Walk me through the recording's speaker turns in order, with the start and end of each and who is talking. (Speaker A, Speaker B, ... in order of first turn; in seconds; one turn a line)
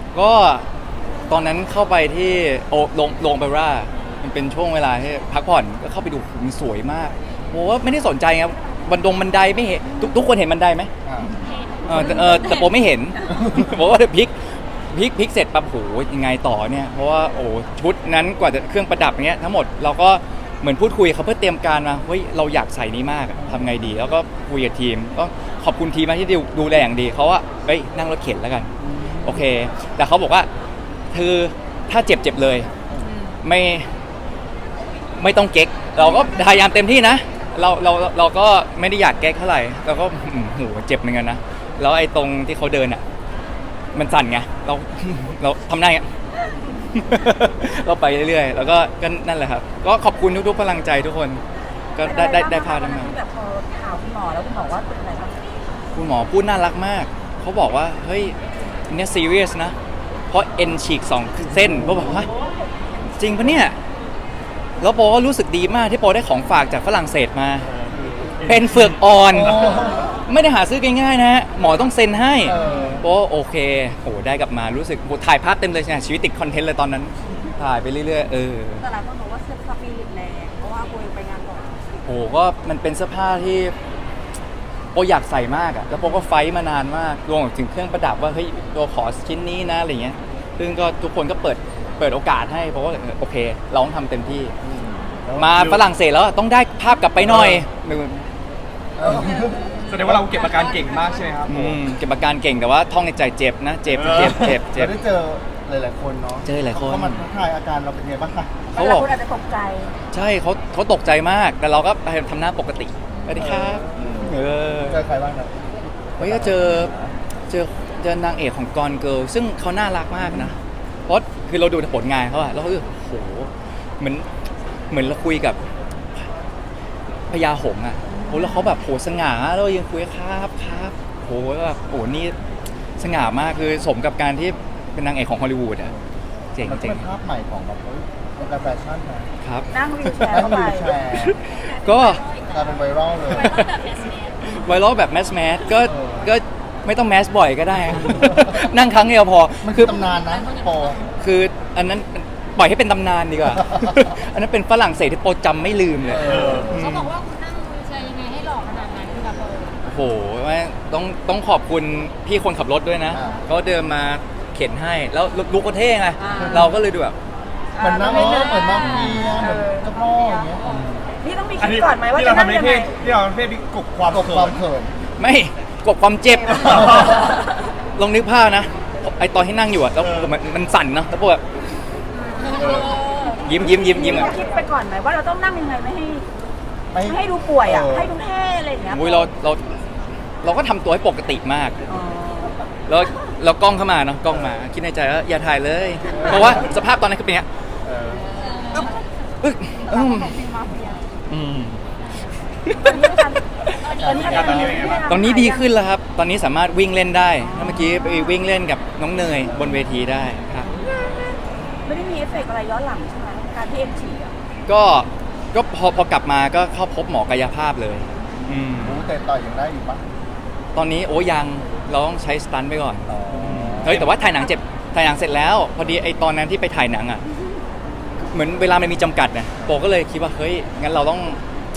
Speaker A: 0.1-0.7
Speaker A: 1.3-10.9
Speaker B: 11.6-12.0
Speaker A: 11.8-30.5
Speaker C: 28.9-29.3
Speaker A: 31.1-32.7
Speaker A: 33.4-33.9
Speaker A: 35.1-43.0
Speaker A: 43.9-46.1
Speaker A: 46.9-51.4
Speaker A: 52.0-53.1
Speaker D: 52.0-55.4
Speaker A: 55.9-58.4
Speaker A: 58.9-59.7
Speaker A: 60.3-62.3
Speaker D: 62.0-63.6
Speaker A: 63.2-63.8
Speaker A: 64.8-67.7
Speaker E: 67.6-69.7
Speaker A: 68.4-78.8
Speaker C: 69.3-70.0
Speaker C: 72.5-73.0
Speaker D: 72.5-73.0
Speaker D: 78.8-81.8
Speaker A: 82.0-83.7
Speaker A: 84.9-94.5
Speaker C: 94.6-95.5
Speaker A: 95.4-98.2
Speaker E: 95.5-95.8
Speaker C: 99.0-100.0
Speaker E: 99.8-101.8
Speaker A: 101.5-105.0
Speaker E: 103.9-104.6
Speaker C: 104.8-108.6
Speaker A: 106.4-107.3
Speaker A: 108.7-109.1
Speaker D: 108.7-109.9
Speaker A: 110.1-115.1
Speaker C: 113.4-114.3
Speaker C: 114.8-115.5
Speaker C: 116.2-117.1
Speaker A: 116.2-116.9
Speaker A: 117.5-124.3
Speaker A: 124.9-125.6
Speaker A: 127.3-132.3
Speaker A: 133.0-135.9
Speaker A: 136.5-137.1
Speaker C: 136.7-139.3
Speaker A: 139.4-142.2
Speaker D: 139.7-141.0
Speaker C: 140.3-141.3
Speaker B: 141.6-142.6
Speaker C: 142.5-143.6
Speaker B: 143.3-144.7
Speaker A: 143.3-143.8
Speaker A: 144.4-150.1
Speaker C: 145.9-146.3
Speaker C: 149.6-151.0
Speaker A: 151.2-157.1
Speaker C: 156.1-156.8
Speaker E: 156.2-156.7
Speaker B: 156.7-159.8
Speaker A: 159.8-167.2
Speaker C: 163.1-163.4
Speaker D: 166.2-166.8
Speaker D: 167.7-170.6
Speaker C: 167.8-170.7
Speaker A: 168.8-169.2
Speaker D: 171.2-172.9
Speaker E: 171.6-174.7
Speaker C: 174.1-174.9
Speaker A: 175.2-177.4
Speaker E: 176.6-177.2
Speaker A: 177.9-181.4
Speaker E: 180.0-180.3
Speaker B: 182.3-183.3
Speaker A: 183.4-184.4
Speaker D: 183.8-186.3
Speaker C: 186.9-188.1
Speaker D: 187.0-189.3
Speaker A: 188.9-189.8
Speaker A: 190.4-191.8
Speaker D: 191.9-192.6
Speaker A: 192.9-197.4
Speaker C: 197.8-198.3
Speaker B: 198.3-199.0
Speaker A: 199.4-200.3
Speaker B: 199.9-201.0
Speaker A: 201.3-201.8
Speaker A: 202.6-210.7
Speaker D: 202.8-205.7
Speaker C: 204.0-204.4
Speaker B: 204.0-204.6
Speaker E: 204.1-205.1
Speaker D: 207.4-208.4
Speaker D: 211.8-214.3
Speaker A: 214.7-219.1
Speaker C: 218.8-220.0
Speaker A: 220.7-227.2
Speaker C: 223.1-224.1
Speaker A: 228.3-231.4